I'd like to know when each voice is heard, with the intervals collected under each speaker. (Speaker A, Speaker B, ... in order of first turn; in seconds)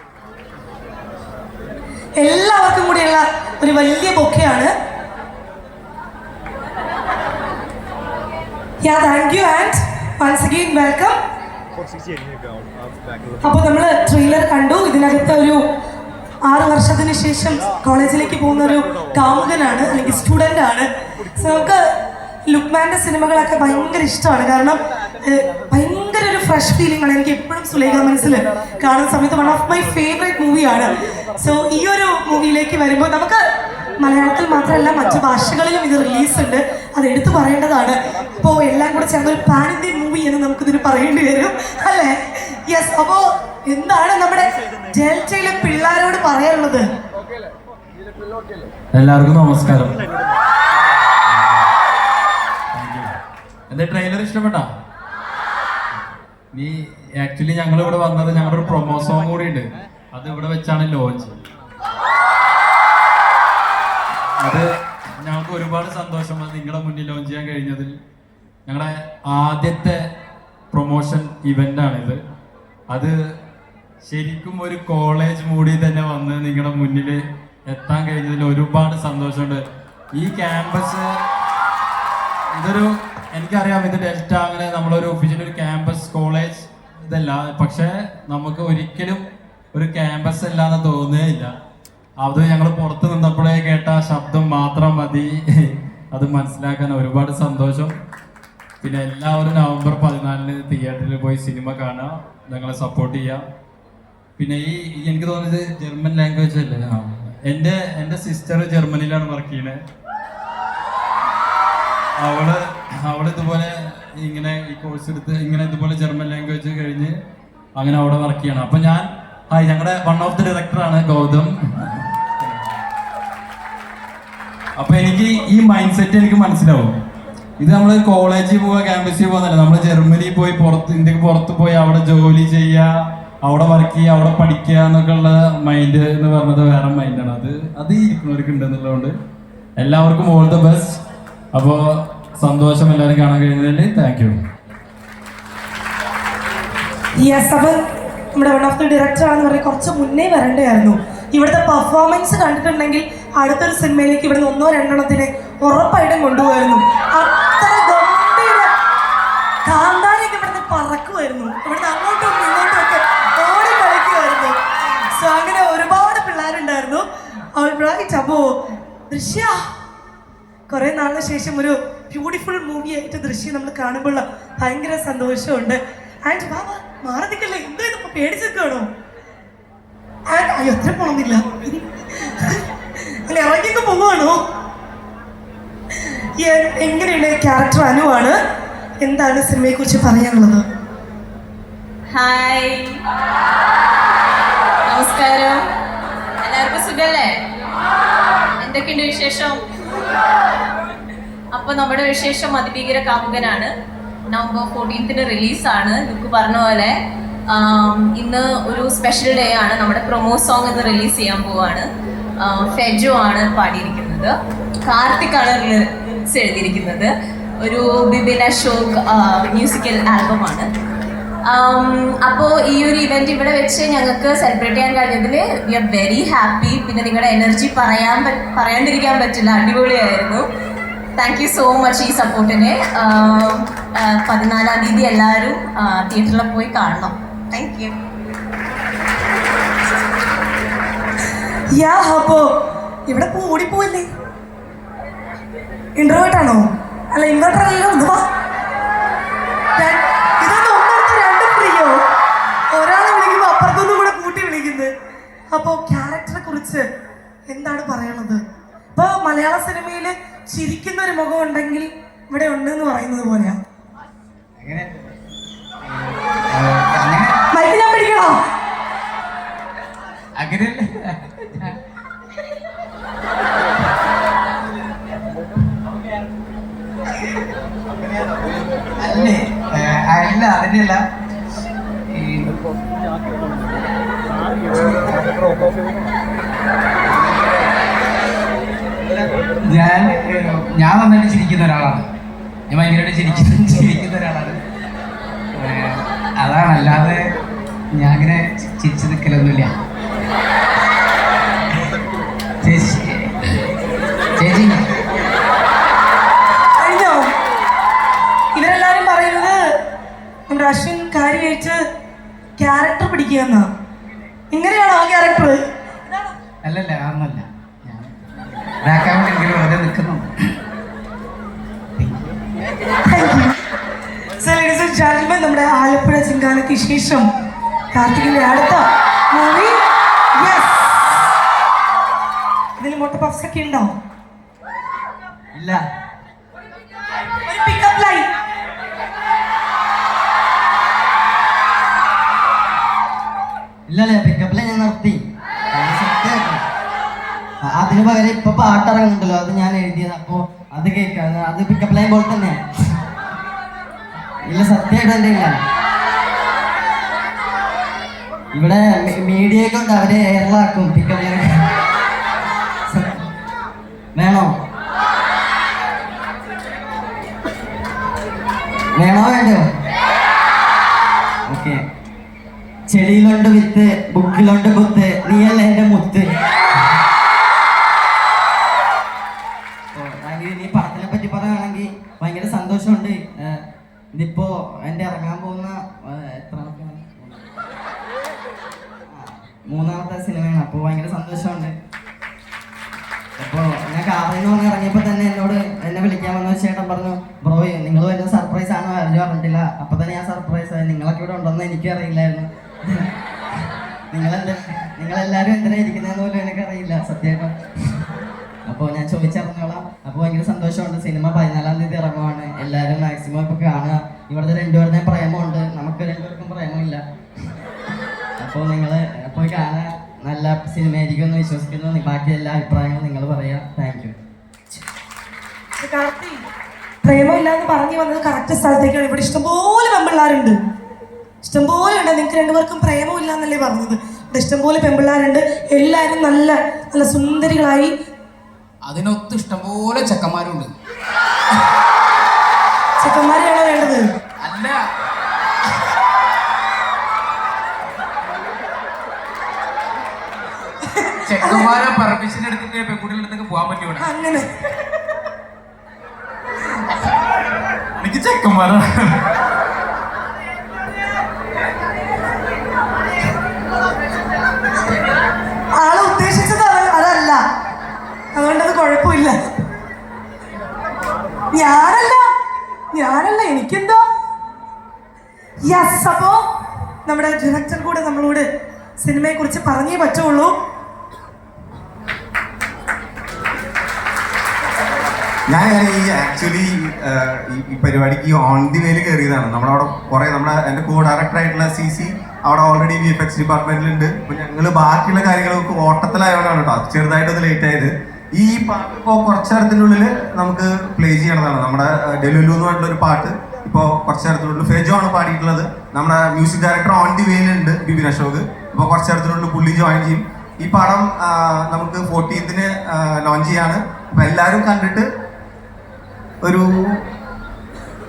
Speaker A: 2.2-4.7, 8.8-11.2, 13.4-15.6, 16.4-21.8, 22.5-33.4, 34.0-46.8, 147.2-147.8, 148.3-158.7, 159.6-164.6, 165.1-168.5, 169.1-169.6, 170.7-178.9, 180.3-182.6, 183.2-184.4, 186.4-188.3, 189.0-190.6, 241.7-242.4, 243.1-244.1, 246.0-248.3, 249.8-252.0, 252.7-254.9, 255.5-256.8, 257.5-258.4, 258.9-263.6, 267.5-268.4, 306.8-307.3, 308.5-309.6, 310.5-311.8, 312.6-313.7, 314.5-316.3, 323.1-323.6, 324.4-327.3, 327.9-329.8, 330.4-331.2, 332.8-333.9, 337.4-338.2, 425.8-426.4, 427.0-430.6, 431.4-437.9, 443.0-444.1, 450.9-451.8, 454.0-455.0, 465.8-467.4, 468.3-469.4, 471.5-472.2, 472.9-474.0, 475.6-476.4, 477.0-478.4, 479.0-480.5
Speaker B: 48.9-49.9, 51.3-51.6, 52.7-53.1, 53.7-54.7, 56.5-61.4, 65.2-67.9, 68.7-70.0, 70.7-72.2, 72.9-73.1, 74.0-81.1, 82.5-89.2, 89.7-91.5, 92.2-97.9, 98.8-103.4, 104.4-109.8, 112.2-117.1, 117.8-122.6, 124.8-126.9, 127.6-139.1, 139.8-141.0, 141.5-144.3, 458.0-459.2
Speaker C: 192.1-193.0, 194.9-195.7, 196.4-197.3, 198.6-199.6, 201.5-203.7, 204.3-206.9, 207.5-211.9, 212.4-214.3, 214.8-217.1, 217.6-220.7, 221.4-230.5, 231.2-238.0
Speaker D: 264.6-264.9, 265.9-267.4, 270.4-270.9, 279.0-281.0, 282.1-282.5, 284.7-285.3, 289.1-292.1, 292.7-294.6, 295.6-297.2, 297.9-299.7, 302.6-303.2, 304.4-304.8, 316.6-320.3, 322.0-322.2, 438.8-440.7, 444.4-444.7, 451.2-454.1
Speaker E: 335.5-335.8, 343.9-345.2, 345.7-346.6, 347.6-352.6, 354.4-355.6, 358.5-361.7, 362.9-363.3, 364.1-364.5, 368.9-369.6, 371.5-371.8, 372.9-376.3, 379.9-383.6, 384.1-387.5, 389.1-391.8, 393.4-403.1, 404.1-407.6, 408.7-417.0, 418.4-424.1
Speaker F: 485.5-515.1, 516.4-517.0